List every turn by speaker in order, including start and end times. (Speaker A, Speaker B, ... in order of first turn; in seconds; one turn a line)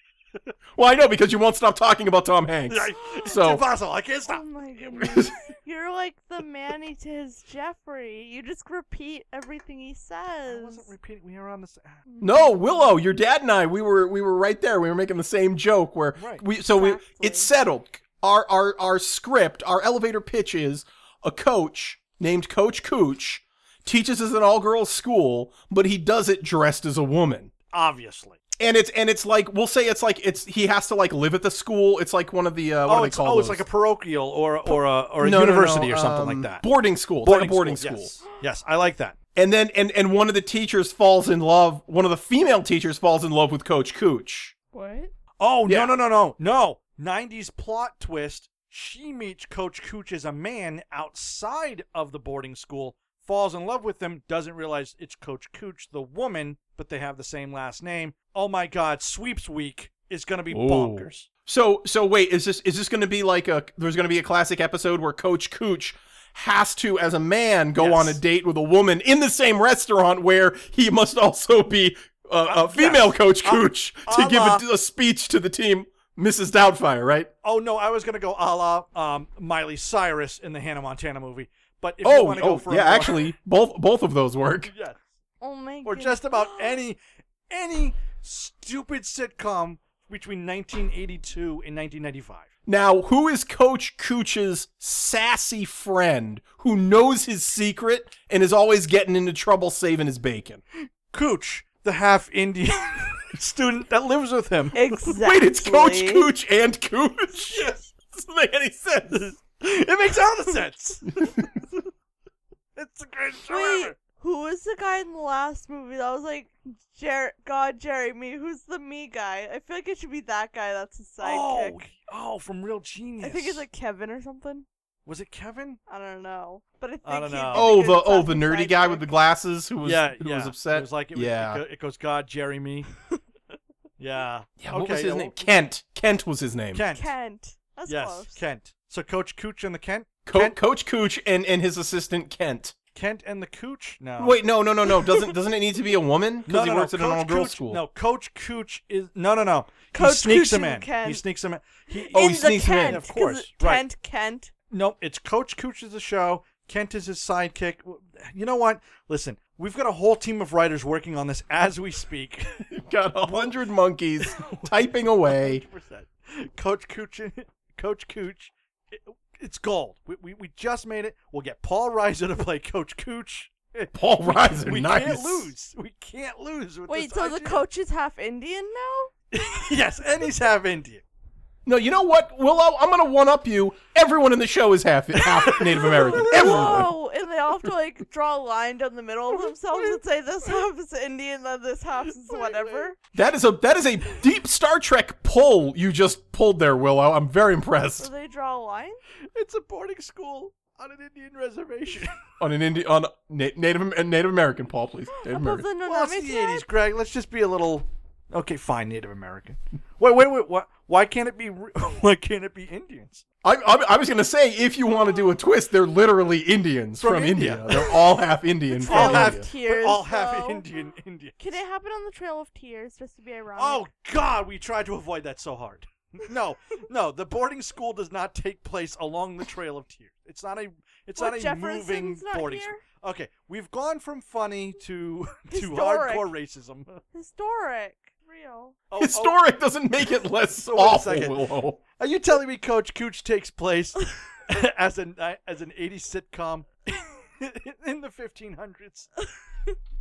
Speaker A: 0.8-3.6
Speaker B: 2.7-4.4
Speaker C: 4.3-10.9
Speaker A: 4.9-5.3
Speaker B: 10.4-12.0
Speaker C: 12.1-12.9
Speaker A: 12.2-27.5
Speaker B: 16.2-16.4
Speaker C: 16.6-17.5
Speaker B: 27.7-28.4
Speaker A: 28.6-33.6
Speaker B: 32.9-36.6
Speaker A: 34.7-38.2
Speaker B: 37.2-39.2
Speaker A: 39.4-44.5
Speaker C: 44.7-45.1
Speaker B: 45.4-61.3
Speaker A: 45.7-46.0
Speaker A: 60.5-77.3
Speaker B: 67.8-68.2
Speaker B: 72.4-74.6
Speaker B: 77.4-83.3
Speaker A: 82.0-84.7
Speaker B: 84.7-85.1
Speaker C: 85.4-86.8
Speaker B: 85.8-87.0
Speaker B: 87.5-92.5
Speaker A: 92.7-100.6
Speaker B: 101.1-104.9
Speaker C: 104.7-106.3
Speaker A: 105.0-109.3
Speaker B: 107.4-107.9
Speaker B: 109.1-111.6
Speaker A: 111.2-111.5
Speaker B: 112.8-114.0
Speaker C: 113.5-121.8
Speaker B: 121.2-123.6
Speaker C: 123.2-124.7
Speaker B: 125.0-125.8
Speaker C: 125.9-129.1
Speaker B: 127.0-127.7
Speaker A: 127.5-131.6
Speaker B: 129.8-132.9
Speaker B: 134.0-135.4
Speaker A: 134.6-136.8
Speaker B: 136.7-137.1
Speaker C: 136.9-138.4
Speaker B: 137.9-140.6
Speaker A: 140.2-142.7
Speaker B: 142.9-144.4
Speaker A: 144.2-147.8
Speaker B: 146.4-153.8
Speaker C: 149.9-151.2
Speaker C: 152.0-154.5
Speaker A: 152.1-153.0
Speaker B: 154.7-162.7
Speaker A: 162.7-165.6
Speaker B: 163.2-163.6
Speaker B: 164.2-177.6
Speaker A: 173.9-175.5
Speaker C: 176.9-179.1
Speaker B: 179.3-181.0
Speaker A: 181.6-186.9
Speaker B: 185.2-186.9
Speaker C: 186.1-192.9
Speaker B: 189.3-190.5
Speaker B: 192.1-192.9
Speaker A: 193.1-198.1
Speaker C: 198.0-199.0
Speaker B: 199.3-202.2
Speaker A: 202.4-205.7
Speaker C: 205.1-206.7
Speaker B: 205.8-213.2
Speaker A: 213.4-219.5
Speaker B: 217.0-218.0
Speaker C: 218.7-220.7
Speaker B: 218.8-221.6
Speaker C: 221.4-223.8
Speaker B: 223.6-237.0
Speaker C: 231.2-232.8
Speaker C: 235.5-236.3
Speaker C: 237.1-238.8
Speaker B: 238.9-239.4
Speaker A: 239.0-241.8
Speaker B: 240.6-249.1